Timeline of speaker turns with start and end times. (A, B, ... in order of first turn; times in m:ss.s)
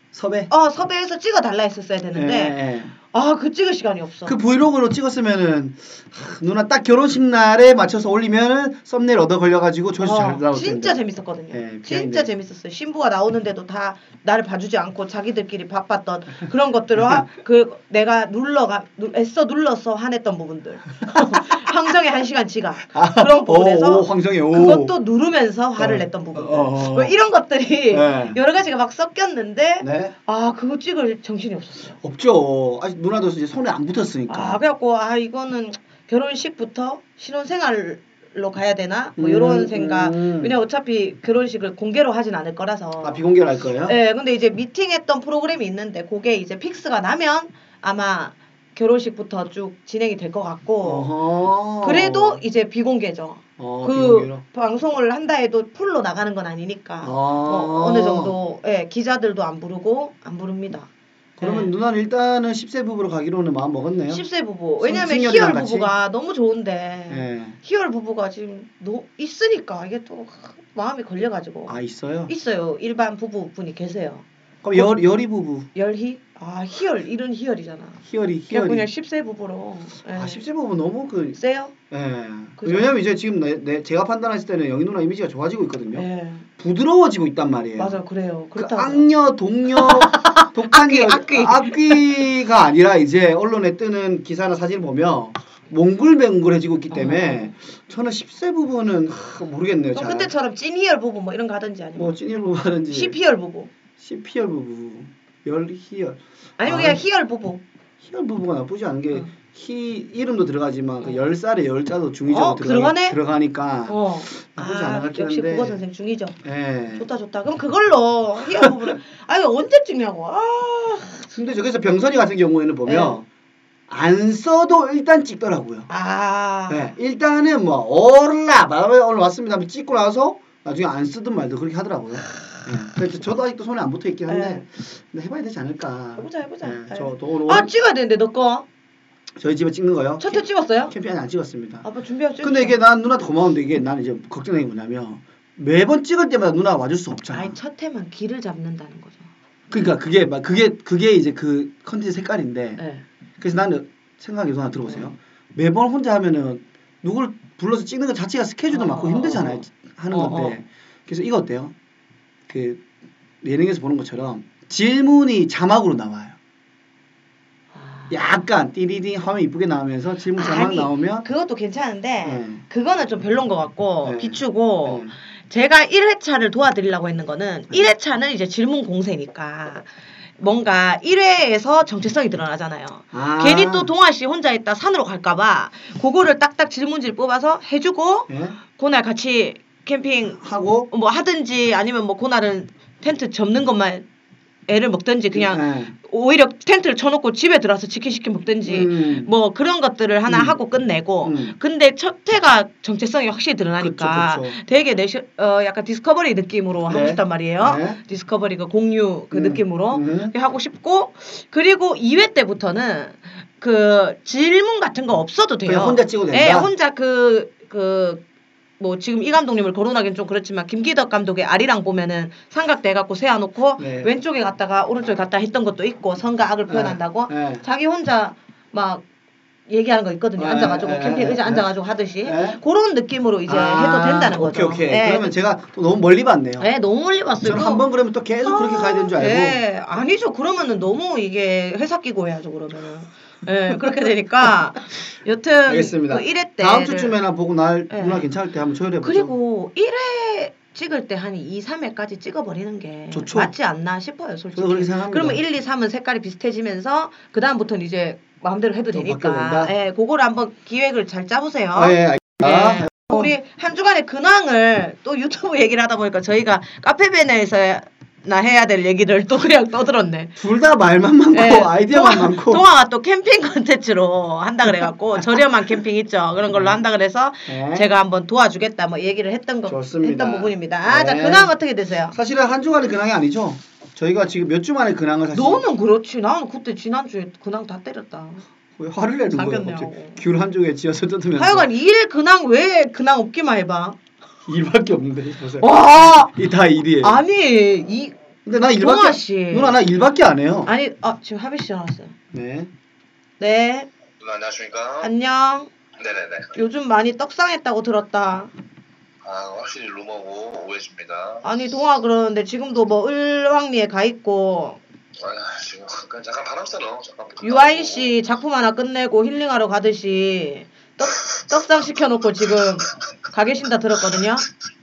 0:00.1-0:00.5 A
0:00.5-0:02.6 B
0:02.1-0:02.9 A
0:03.1-0:04.3 B
0:04.2-0:11.0 A
0:10.0-0:32.0 B
0:11.5-0:12.3 A
0:17.0-0:17.2 A
0:21.1-0:21.4 A
0:22.9-0:24.9 A
0:25.8-0:27.1 A
0:27.9-0:28.4 A
0:29.8-0:30.1 A
0:32.0-0:34.6 A
0:34.3-0:43.2 B
0:39.2-0:40.5 A
0:43.0-0:44.0 A
0:43.8-0:51.1 B
0:50.8-0:52.4 A
0:51.8-1:00.9 B
0:53.6-0:54.4 A
0:57.0-0:58.4 A
1:01.4-1:04.2 A
1:01.4-1:01.7 B
1:04.1-1:11.8 B
1:04.8-1:05.9 A
1:07.1-1:07.6 A
1:11.7-1:12.3 A
1:12.3-1:14.9 B
1:14.6-1:15.7 A
1:15.7-1:18.0 B
1:18.0-1:18.9 A
1:18.5-1:20.4 B
1:20.1-1:21.4 A
1:21.4-1:21.7 B
1:21.9-1:26.1 A
1:22.6-1:22.9 B
1:25.9-1:26.4 B
1:26.6-1:28.0 A
1:27.8-1:29.1 B
1:28.6-1:40.3 A
1:29.7-1:32.2 B
1:36.9-1:37.5 B
1:39.9-1:42.1 B
1:42.0-1:43.2 A
1:42.9-1:43.7 B
1:44.0-1:47.0 A
1:46.6-1:47.6 B
1:48.0-1:55.8 A
1:52.3-1:53.2 B
1:53.9-1:56.4 B
1:56.4-1:57.0 A
1:57.0-2:01.3 B
2:01.3-2:03.2 A
2:02.8-2:03.2 B
2:03.9-2:05.9 A
2:05.9-2:06.9 B
2:06.7-2:17.7 A
2:14.3-2:14.6 B
2:16.2-2:18.6 B
2:19.4-2:20.4 A
2:20.2-2:20.9 B
2:20.9-2:21.8 A
2:21.8-2:22.8 B
2:22.4-2:27.5 A
2:27.3-2:29.3 B
2:29.7-2:32.8 A
2:32.8-2:33.0 B
2:33.4-2:41.7 A
2:38.7-2:40.6 B
2:42.5-2:42.8 A
2:43.4-2:46.4 A
2:47.7-2:48.2 B
2:48.1-2:51.2 A
2:50.3-3:14.0 B
2:52.2-2:52.6 A
2:54.0-2:55.1 A
3:03.1-3:03.9 A
3:08.3-3:08.6 A
3:10.4-3:10.9 A
3:14.7-3:38.2 B
3:15.3-3:15.9 A
3:18.6-3:19.3 A
3:20.3-3:20.6 A
3:21.2-3:21.6 A
3:23.8-3:24.6 A
3:26.9-3:28.0 A
3:29.3-3:30.3 A
3:35.6-3:36.7 A
3:38.8-3:49.0 B
3:43.8-3:44.1 A
3:46.7-3:47.6 A
3:49.7-3:55.3 B
3:50.4-3:51.7 A
3:52.2-3:52.6 A
3:53.4-3:56.7 A
3:56.6-3:57.8 B
3:57.4-3:59.6 A
3:58.4-4:07.2 B
4:05.7-4:09.3 A
4:07.9-4:08.2 B
4:09.0-4:30.3 B
4:13.1-4:13.5 A
4:14.5-4:15.4 A
4:18.9-4:19.7 A
4:21.7-4:23.3 A
4:30.4-4:32.6 A
4:31.3-4:42.2 B
4:36.5-4:36.8 A
4:37.5-4:37.9 A
4:39.7-4:41.5 A
4:42.1-4:45.6 A
4:45.3-4:48.4 B
4:48.8-4:51.7 A
4:49.3-4:50.2 B
4:51.4-4:54.0 B
4:54.5-4:57.2 A
4:55.6-4:56.3 B
4:57.0-4:58.1 B
4:58.4-5:00.7 A
4:58.8-4:59.8 B
5:00.6-5:02.1 B
5:02.3-5:02.7 A
5:03.4-5:03.9 B
5:04.2-5:05.1 C
5:05.0-5:05.7 B
5:06.0-5:06.5 C
5:06.5-5:08.5 B
5:09.2-5:11.4 C
5:11.4-5:14.8 B
5:15.2-5:18.1 C
5:17.4-5:24.4 B